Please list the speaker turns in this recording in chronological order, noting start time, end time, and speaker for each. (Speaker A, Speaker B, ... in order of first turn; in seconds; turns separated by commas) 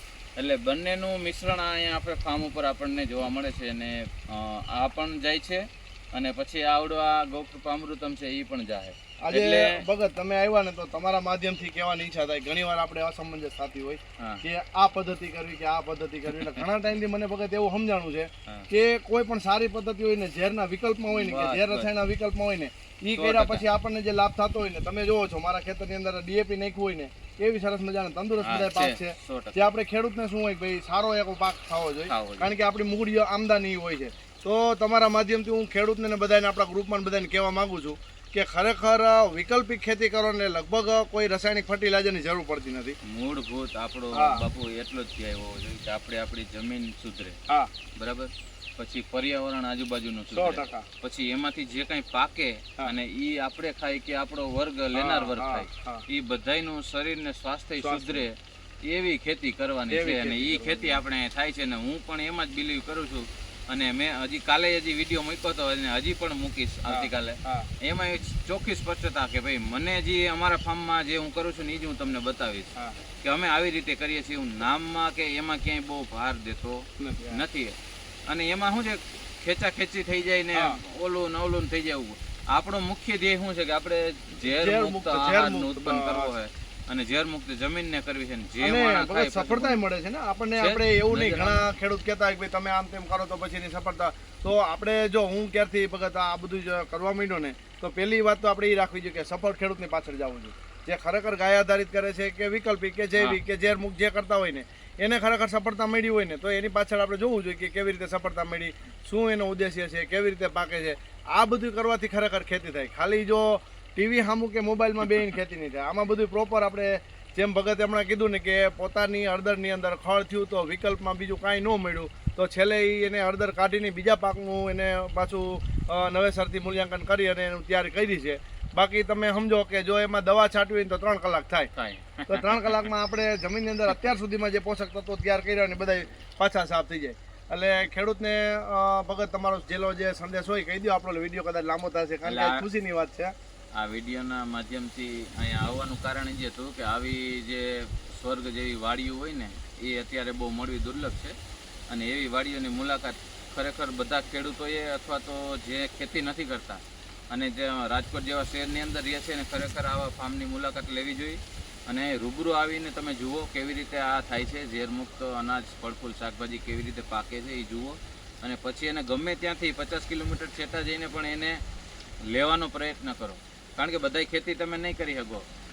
Speaker A: 0.4-9.8, Speaker B: 9.2-43.0, Speaker A: 14.2-14.4, Speaker A: 16.3-16.6, Speaker A: 21.1-21.9, Speaker A: 23.1-23.6, Speaker A: 28.4-29.7, Speaker A: 32.1-32.5, Speaker A: 43.0-47.4, Speaker B: 44.1-44.4, Speaker A: 47.9-89.8, Speaker B: 50.3-50.9, Speaker B: 54.9-56.0, Speaker B: 57.8-58.2, Speaker B: 59.9-61.0, Speaker B: 66.9-67.7, Speaker B: 77.0-77.4, Speaker B: 80.5-80.8, Speaker B: 84.4-86.3, Speaker B: 88.6-131.7, Speaker A: 90.6-91.6, Speaker A: 131.8-132.9, Speaker B: 132.3-143.3, Speaker A: 142.2-142.6, Speaker A: 143.7-151.3, Speaker A: 151.9-171.6, Speaker A: 172.3-175.4